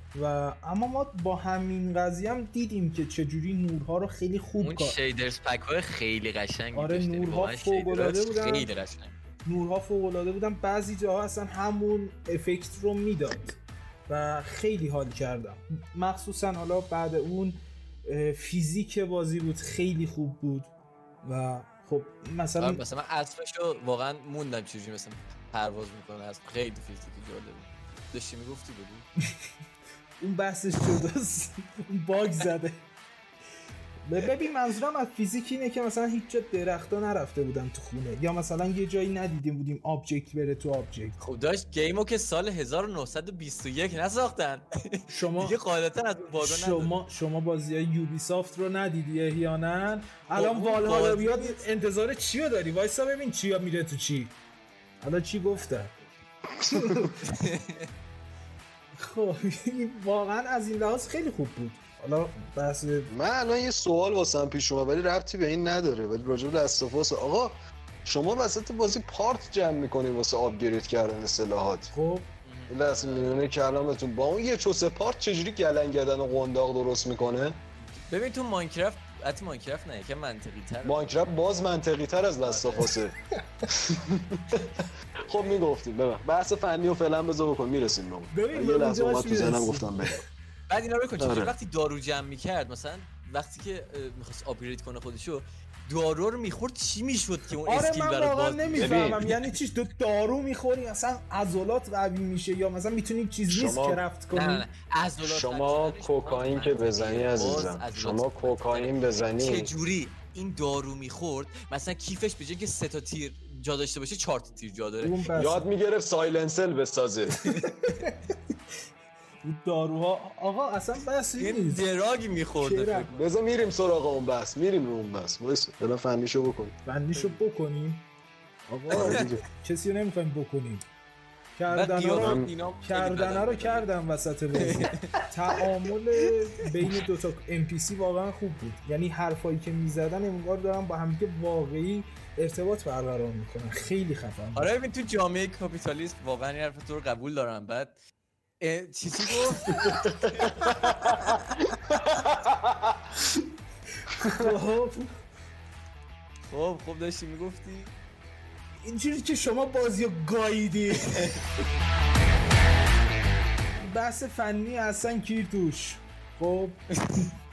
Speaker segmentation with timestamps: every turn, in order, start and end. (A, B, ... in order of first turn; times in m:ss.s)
0:00.1-0:05.0 A
0:04.6-0:09.2 B
0:06.7-0:08.7 A
0:09.4-0:20.7 A
0:21.2-0:22.8 A
0:22.6-0:29.1 B
0:30.2-0:32.9 A
0:34.0-0:41.2 A
0:41.2-0:47.0 B
0:45.1-0:45.6 A
0:46.4-0:54.4 A
0:50.3-0:51.7 B
0:55.0-0:56.0 A
0:56.6-0:57.1 C
0:56.7-0:57.2 A
0:57.2-0:57.9 B
0:59.0-1:03.1 A
1:03.1-1:11.9 C
1:11.9-1:12.3 A
1:12.4-1:13.4 B
1:12.7-1:17.6 C
1:17.8-1:21.2 B
1:20.8-1:23.2 C
1:22.4-1:23.0 B
1:23.7-1:30.2 C
1:25.3-1:25.6 B
1:28.3-1:30.1 A
1:30.7-1:39.1 B
1:31.2-1:31.5 C
1:37.7-1:44.7 A
1:38.8-1:39.5 C
1:43.5-1:44.0 C
1:44.3-1:55.3 B
1:45.2-1:49.7 C
1:55.0-1:55.7 A
1:55.4-1:57.4 C
1:57.8-1:58.2 A
1:59.4-2:01.9 A
2:01.4-2:03.8 B
2:02.6-2:03.2 A
2:03.1-2:06.8 C
2:06.9-2:08.1 A
2:07.2-2:07.4 B
2:08.7-2:10.8 A
2:08.9-2:09.4 C
2:08.9-2:09.2 B
2:11.6-2:24.7 A
2:11.7-2:13.9 B
2:12.2-2:12.5 C
2:14.6-2:15.2 B
2:16.3-2:17.0 B
2:24.6-2:28.0 B
2:28.6-2:30.9 B
2:29.8-2:33.0 C
2:30.9-2:31.4 A
2:34.2-2:35.1 A
2:34.2-2:34.5 C
2:36.5-2:38.0 B
2:38.8-2:41.4 A
2:43.8-2:46.9 A
2:47.0-2:47.3 B